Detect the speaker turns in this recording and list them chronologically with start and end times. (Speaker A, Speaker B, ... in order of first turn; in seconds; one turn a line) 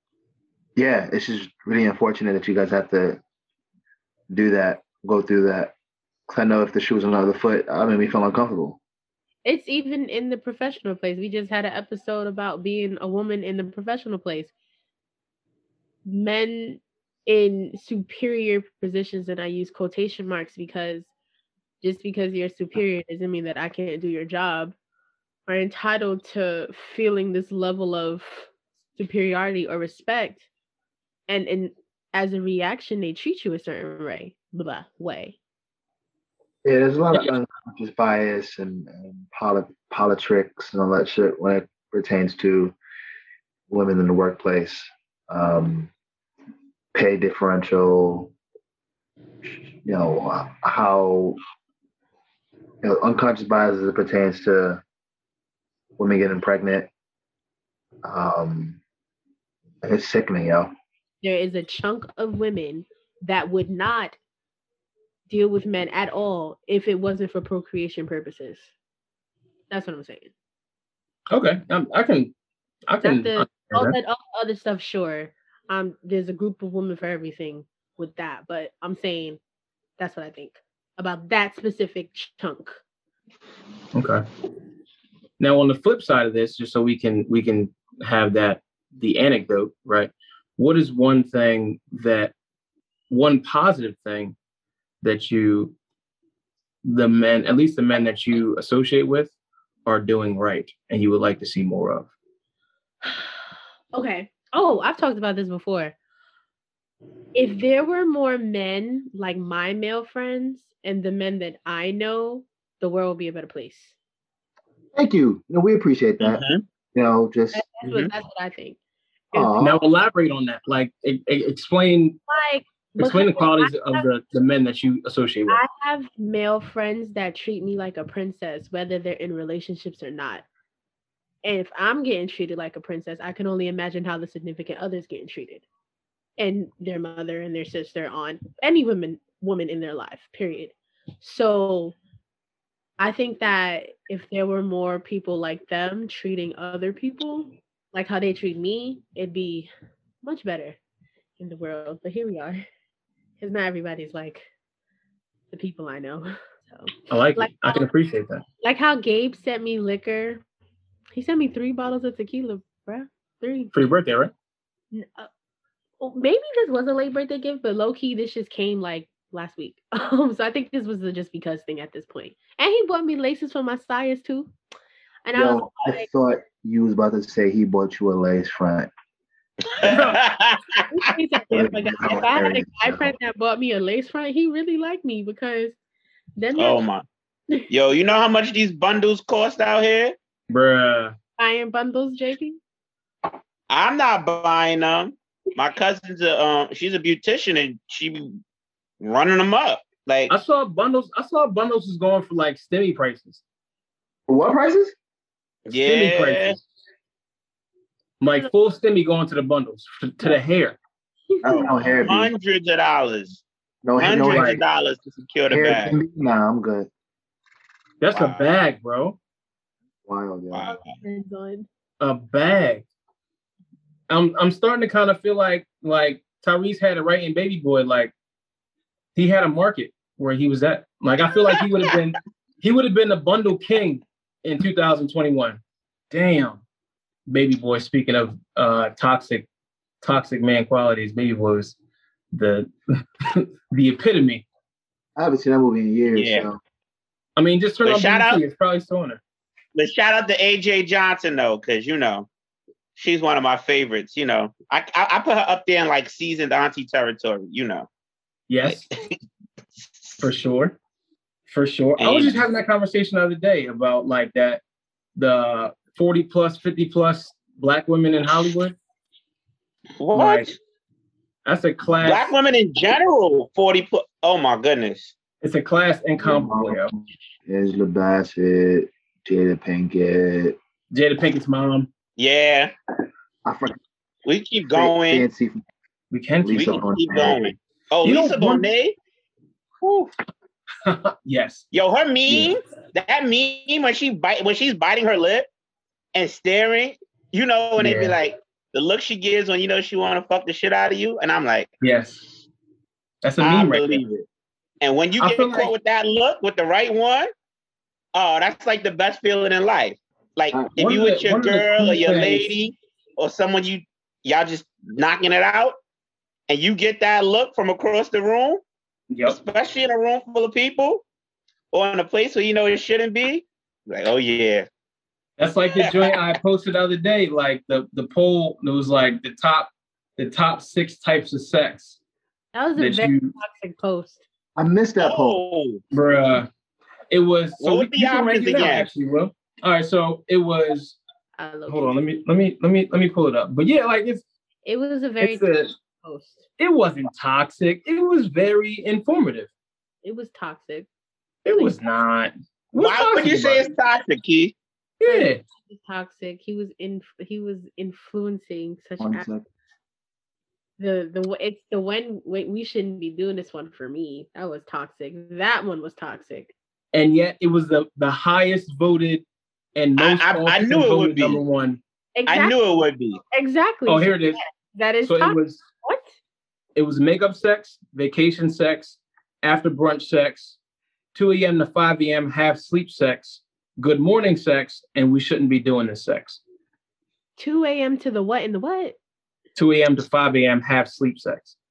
Speaker A: 0.8-3.2
Speaker A: 4.3-5.7
Speaker A: 6.3-8.8
Speaker B: 9.4-14.5
Speaker B: 16.1-21.1
Speaker B: 21.8-24.7
Speaker B: 25.5-30.5
Speaker B: 31.3-35.4
Speaker A: 36.6-42.8
Speaker A: 43.7-45.9
Speaker A: 46.9-48.3
Speaker A: 49.8-51.4
Speaker A: 52.8-54.8
Speaker A: 56.0-56.9
Speaker A: 58.0-58.8
Speaker A: 59.8-60.7
Speaker B: 61.2-64.2
Speaker B: 65.3-68.7
Speaker B: 69.7-70.3
Speaker C: 71.3-72.3
Speaker C: 72.9-74.0
Speaker B: 73.0-79.4
Speaker B: 80.0-82.8
Speaker C: 83.9-84.2
Speaker C: 85.4-92.3
Speaker C: 93.1-94.3
Speaker C: 95.0-95.7
Speaker C: 96.8-99.3
Speaker C: 99.8-102.1
Speaker B: 103.9-105.9
Speaker B: 107.3-114.0
Speaker A: 114.9-116.4
Speaker D: 116.2-116.6
Speaker A: 116.9-117.6
Speaker B: 117.5-118.8
Speaker D: 117.8-118.1
Speaker A: 119.3-119.8
Speaker C: 119.6-122.2
Speaker B: 122.3-124.1
Speaker C: 123.0-125.6
Speaker B: 125.5-130.4
Speaker B: 131.4-135.6
Speaker B: 136.4-141.9
Speaker B: 143.0-149.7
Speaker B: 150.2-150.8
Speaker B: 151.4-152.6
Speaker B: 153.4-154.5
Speaker B: 155.5-157.8
Speaker C: 157.1-158.4
Speaker B: 158.6-160.4
Speaker B: 161.1-163.8
Speaker C: 163.7-164.3
Speaker B: 164.9-165.3
Speaker B: 166.0-174.5
Speaker B: 175.2-176.1
Speaker A: 175.3-178.9
Speaker D: 179.7-180.8
Speaker C: 179.8-180.2
Speaker B: 180.9-185.8
Speaker A: 181.5-183.1
Speaker B: 186.4-186.8
Speaker D: 186.5-187.0
Speaker D: 187.7-190.1
Speaker C: 190.5-191.2
Speaker B: 191.4-192.6
Speaker D: 193.7-198.4
Speaker D: 199.0-200.3
Speaker C: 200.3-203.4
Speaker A: 204.3-204.9
Speaker D: 205.7-206.6
Speaker C: 205.8-206.6
Speaker C: 208.2-210.8
Speaker B: 211.3-211.7
Speaker A: 211.4-212.3
Speaker D: 211.4-213.4
Speaker A: 213.8-214.6
Speaker D: 214.0-216.0
Speaker C: 214.3-214.6
Speaker A: 215.5-216.9
Speaker C: 218.0-219.2
Speaker D: 218.1-218.5
Speaker A: 220.1-220.7
Speaker D: 220.5-220.9
Speaker B: 221.0-221.7
Speaker C: 222.0-222.8
Speaker C: 224.1-228.1
Speaker C: 229.1-235.6
Speaker C: 236.1-236.6
Speaker C: 237.3-239.5
Speaker C: 240.0-241.8
Speaker C: 242.3-242.7
Speaker C: 243.2-244.4
Speaker A: 245.2-246.6
Speaker D: 246.1-246.5
Speaker C: 247.4-249.2
Speaker D: 247.8-248.4
Speaker D: 249.7-252.3
Speaker D: 252.9-257.9
Speaker C: 258.5-258.9
Speaker C: 260.2-260.8
Speaker C: 261.5-264.6
Speaker D: 262.0-262.4
Speaker C: 265.1-268.8
Speaker D: 270.0-270.6
Speaker C: 270.1-270.5
Speaker C: 271.4-272.3
Speaker D: 272.0-275.1
Speaker C: 275.4-276.9
Speaker A: 276.2-280.6
Speaker C: 280.9-281.9
Speaker D: 282.2-282.7
Speaker A: 283.4-283.8
Speaker D: 284.2-285.3
Speaker A: 284.7-285.6
Speaker C: 286.1-286.9
Speaker A: 286.4-287.5
Speaker D: 286.5-288.9
Speaker C: 288.0-288.7
Speaker C: 289.8-290.1
Speaker C: 290.9-291.6
Speaker D: 291.7-295.5
Speaker D: 296.1-301.7
Speaker C: 297.8-298.1
Speaker C: 301.8-302.3
Speaker C: 303.2-304.0
Speaker D: 303.4-304.2
Speaker D: 304.8-307.3
Speaker C: 305.2-305.7
Speaker D: 308.1-315.7
Speaker C: 310.8-312.5
Speaker D: 316.5-318.6
Speaker C: 319.1-319.4
Speaker D: 319.2-321.0
Speaker D: 321.7-324.7
Speaker C: 325.4-332.0
Speaker D: 325.7-326.1
Speaker B: 332.5-334.2
Speaker C: 332.8-333.3
Speaker A: 334.6-335.4
Speaker D: 335.0-335.8
Speaker C: 335.9-336.5
Speaker C: 337.1-341.0
Speaker D: 337.6-338.9
Speaker B: 341.4-342.0
Speaker C: 341.7-344.2
Speaker B: 344.6-346.4
Speaker C: 345.2-345.7
Speaker C: 346.6-349.5
Speaker B: 350.0-350.9
Speaker C: 351.4-353.7
Speaker B: 351.5-351.8
Speaker D: 352.8-354.5
Speaker C: 355.0-355.4
Speaker B: 355.1-359.3
Speaker A: 359.0-359.4
Speaker B: 360.8-366.5
Speaker C: 366.9-371.8
Speaker D: 370.0-371.4
Speaker B: 372.1-372.6
Speaker D: 372.3-373.2
Speaker B: 373.3-376.1
Speaker C: 373.9-374.4
Speaker C: 375.0-375.6
Speaker C: 376.7-380.6
Speaker C: 381.1-386.4
Speaker B: 387.4-389.0
Speaker C: 389.6-391.5